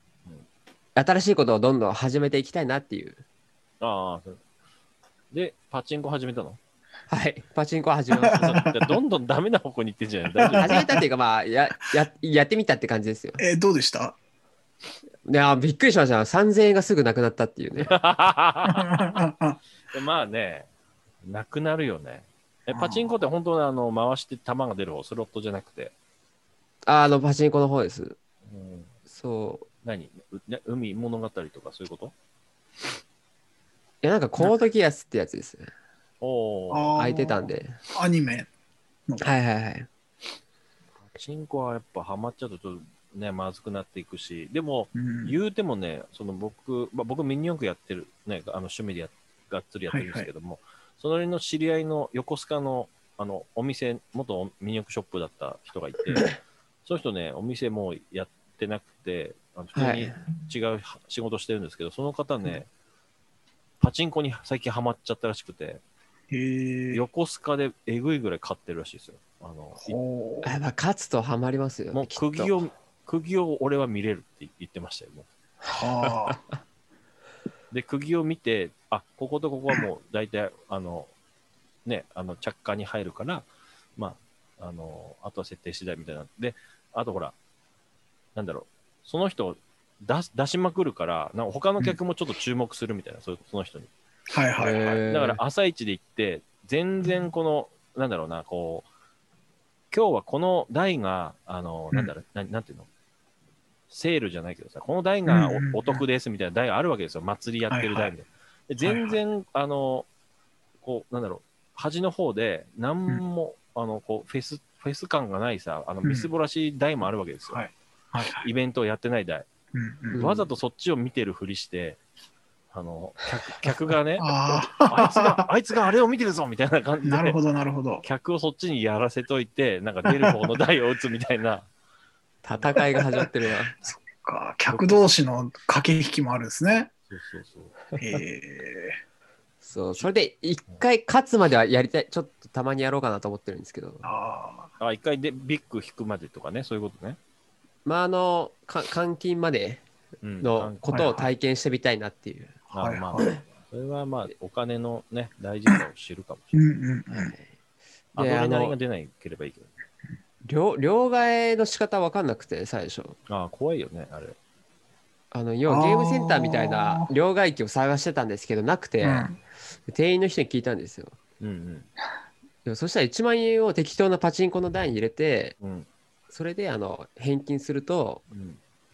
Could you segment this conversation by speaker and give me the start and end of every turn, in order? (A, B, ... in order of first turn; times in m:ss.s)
0:01.0-0:03.2 A
0:03.8-0:04.4 B
0:05.3-0:06.6 B
0:07.1-0:08.4 A
0:08.2-0:10.8 B
0:08.4-0:08.9 C
0:10.3-0:10.9 C
0:10.5-0:13.4 A
0:13.4-0:14.2 C
0:15.2-0:17.9 A
0:17.8-0:18.9 B
0:18.6-0:19.6 C
0:19.9-0:20.7 B
0:21.2-0:25.9 B
0:22.7-0:23.1 C
0:26.8-0:28.2 A
0:28.4-0:28.9 B
0:29.1-0:29.7 A
0:29.8-0:32.1 B
0:34.0-0:35.7 A
0:36.2-0:36.9 B
0:36.7-0:38.5 C
0:37.0-0:37.8 A
0:39.2-0:39.9 A
0:41.0-1:02.7 B
0:45.0-0:45.4 C
0:49.9-0:50.3 C
0:59.8-1:00.2 A
1:03.8-1:05.8 B
1:06.3-1:07.0 C
1:06.9-1:10.0 B
1:09.8-1:10.5 C
1:10.4-1:12.5 A
1:11.9-1:15.3 B
1:15.7-1:16.4 C
1:16.0-1:16.4 A
1:17.7-1:21.1 B
1:21.8-1:27.3 B
1:28.3-1:33.9 B
1:34.3-1:35.0 C
1:34.6-1:35.4 A
1:35.1-1:38.9 B
1:39.9-1:42.9 B
1:43.9-1:50.1 B
1:45.3-1:46.0 C
1:47.7-1:48.1 C
1:48.8-1:49.2 C
1:50.8-1:57.6 B
1:56.0-1:56.3 C
1:57.5-1:58.5 C
1:58.3-1:59.5 B
1:59.7-2:00.2 C
2:00.1-2:00.4 A
2:00.1-2:02.0 B
2:02.7-2:07.4 B
2:04.2-2:05.4 C
2:07.0-2:08.0 C
2:08.0-2:11.7 B
2:10.0-2:10.4 C
2:12.4-2:13.8 A
2:12.5-2:12.8 B
2:12.8-2:13.3 C
2:13.8-2:16.9 C
2:14.7-2:15.0 B
2:17.1-2:17.8 B
2:18.0-2:19.0 C
2:19.6-2:24.1 A
2:24.0-2:24.7 C
2:24.8-2:27.2 B
2:27.8-2:29.8 A
2:30.2-2:31.2 B
2:30.4-2:32.6 A
2:31.0-2:31.2 C
2:32.7-2:33.3 C
2:32.7-2:36.6 B
2:36.5-2:37.3 C
2:37.1-2:37.5 A
2:38.2-2:38.8 A
2:38.2-2:39.7 B
2:40.4-2:43.2 A
2:43.3-2:44.4 B
2:45.3-2:49.3 A
2:45.7-2:47.1 C
2:49.0-2:49.4 C
2:49.9-2:51.2 A
2:51.4-2:51.9 B
2:52.6-2:55.6 A
2:55.6-2:55.9 B
2:56.3-2:58.2 A
2:58.3-2:58.6 B